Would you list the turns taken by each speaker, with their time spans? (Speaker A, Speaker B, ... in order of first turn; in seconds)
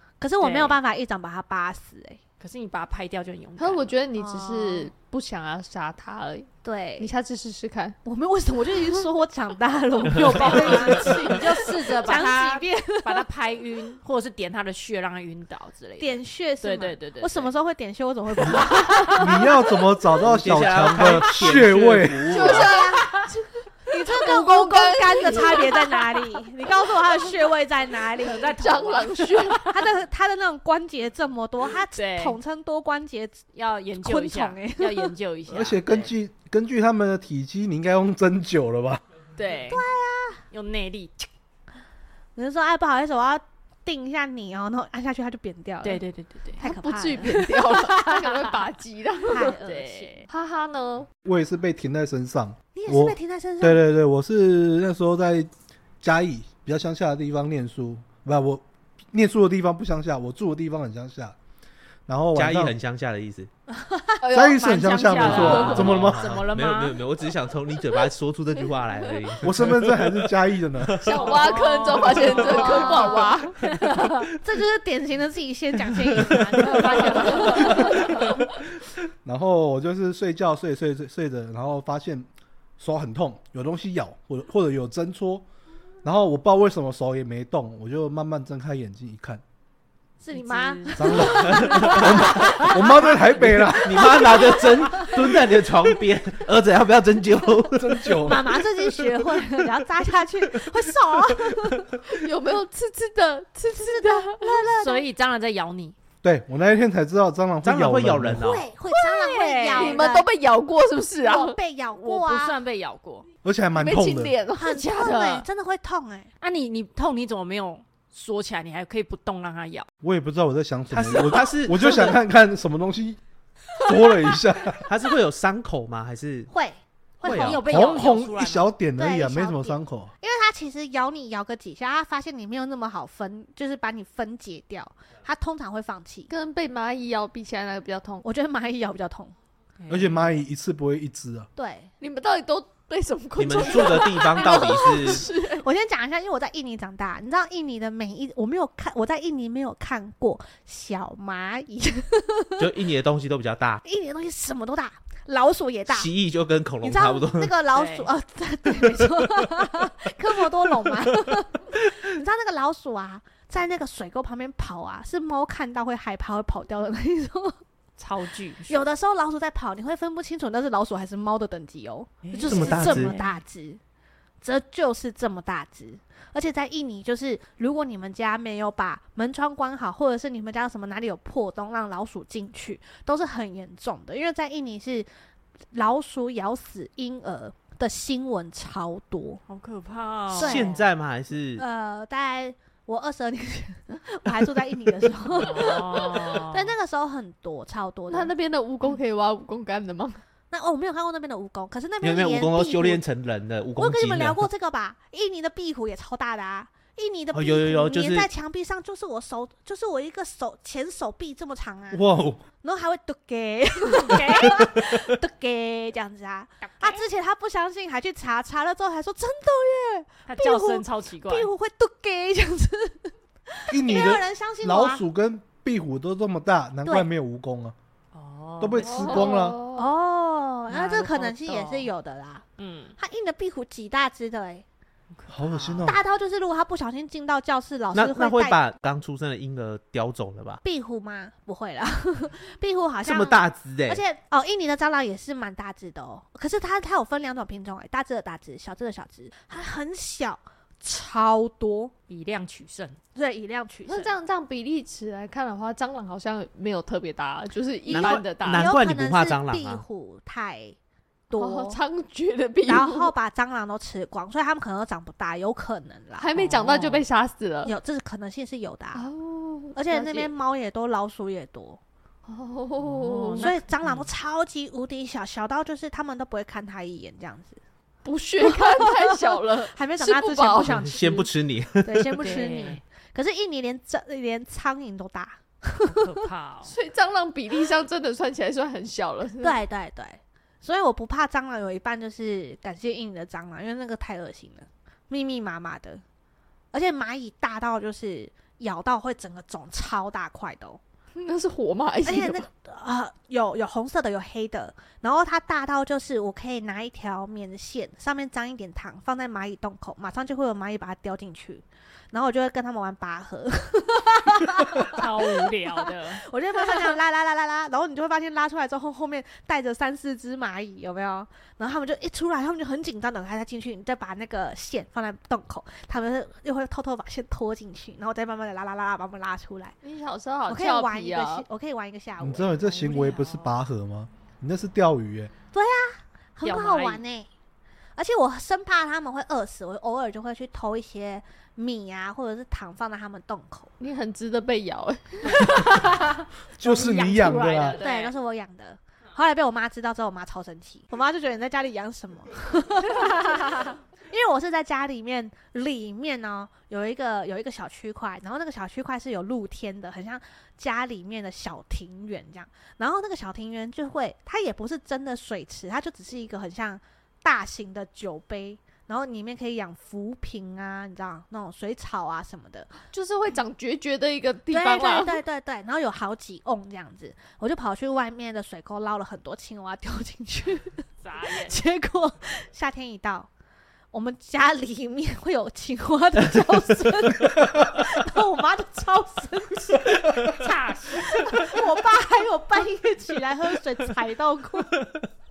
Speaker A: 0.2-2.2, 4.1-4.9, 6.6-7.1, 8.0-13.3, 16.0-19.5, 22.4-23.2, 23.9-33.4, 34.0-35.1, 39.7-40.4, 42.4-46.0, 46.6-48.1, 49.3-50.2, 52.8-53.8, 63.7-64.2, 72.2-73.4, 74.3-78.3, 90.2-93.1, 93.8-95.2, 98.2-101.9, 103.7-105.1, 108.4-110.3, 111.2-112.5, 114.5-116.3, 126.5-127.5, 128.9-136.3, 138.2-139.3, 141.6-141.9, 143.6-152.7, 153.8-156.1, 156.8-167.6, 168.7-173.8, 174.4-185.1, 185.7-189.4, 190.3-190.8, 191.6-198.3, 200.5-203.0, 203.8-212.0, 212.6-225.0, 229.7-232.4, 233.0-234.6, 235.8-238.6, 240.6-251.9, 253.1-254.1, 257.9-260.8, 261.3-261.8, 262.6-266.3, 267.6-269.1, 269.7-271.8, 273.4-277.6, 278.4-281.3, 281.8-286.1, 289.4-296.0, 296.7-300.8, 302.0-329.8, 330.4-332.9, 335.5-337.3, 337.9-343.7, 347.8-372.7, 374.5-383.3, 383.9-390.3, 390.9-394.9
Speaker B: 0.4-0.8, 2.4-3.9, 10.1-17.5, 18.4-19.2, 28.2-29.8, 31.9-32.4, 33.5-36.1, 39.4-39.8, 40.5-41.3, 45.8-46.6, 49.4-50.2, 64.6-67.0, 71.1-74.3, 76.6-78.2, 90.3-92.8, 104.8-105.9, 109.1-110.0, 112.0-113.3, 115.0-115.4, 116.4-119.9, 127.2-128.7, 139.8-140.2, 157.7-158.1, 168.0-168.8, 172.2-173.3, 189.5-190.8, 195.4-196.7, 214.0-214.7, 216.6-217.0, 220.3-221.5, 228.1-229.3, 230.7-231.9, 232.6-232.9, 235.1-236.0, 252.1-253.0, 266.3-267.0, 272.8-274.1, 282.2-282.8, 285.9-286.7, 314.8-316.9, 332.8-333.5, 336.4-337.0, 345.3-348.1, 381.0-381.6, 390.2-391.6
Speaker C: 3.6-8.0, 22.3-23.6, 24.1-26.0, 28.4-29.7, 46.6-49.6, 50.3-51.1, 64.2-65.9, 71.0-73.7, 102.1-104.7, 109.7-111.6, 113.8-115.0, 136.3-138.2, 142.0-145.7, 198.1-200.2, 228.8-229.9, 253.9-258.8, 261.4-263.1, 266.2-267.7, 268.9-270.3, 272.3-273.5, 278.0-280.9, 286.6-289.6, 301.1-302.5, 329.8-331.4, 343.8-345.8, 372.9-375.2
Speaker D: 19.1-22.5, 35.5-39.0, 51.2-55.5, 56.0-61.4, 62.1-62.8, 64.3-66.3, 69.4-71.0, 79.2-82.3, 82.8-85.5, 86.0-89.4, 91.0-94.2, 97.7-98.6, 106.2-108.5, 113.4-114.3, 120.0-123.2, 123.8-124.8, 127.5-130.1, 139.9-141.5, 223.7-227.8, 228.6-229.6, 235.3-236.0, 332.2-335.3, 346.6-347.8
Speaker E: 20.2-22.7, 62.4-63.5, 65.2-70.1, 70.8-71.2, 91.5-92.2, 93.5-98.0, 107.6-108.7, 120.9-122.2, 124.9-126.5, 127.2-127.6, 143.4-145.2, 152.6-153.8, 155.9-157.5, 172.4-173.1, 190.3-191.6, 202.0-204.4, 207.3-208.3, 211.9-212.4, 237.9-240.6, 243.0-244.0, 257.9-259.8, 280.6-282.1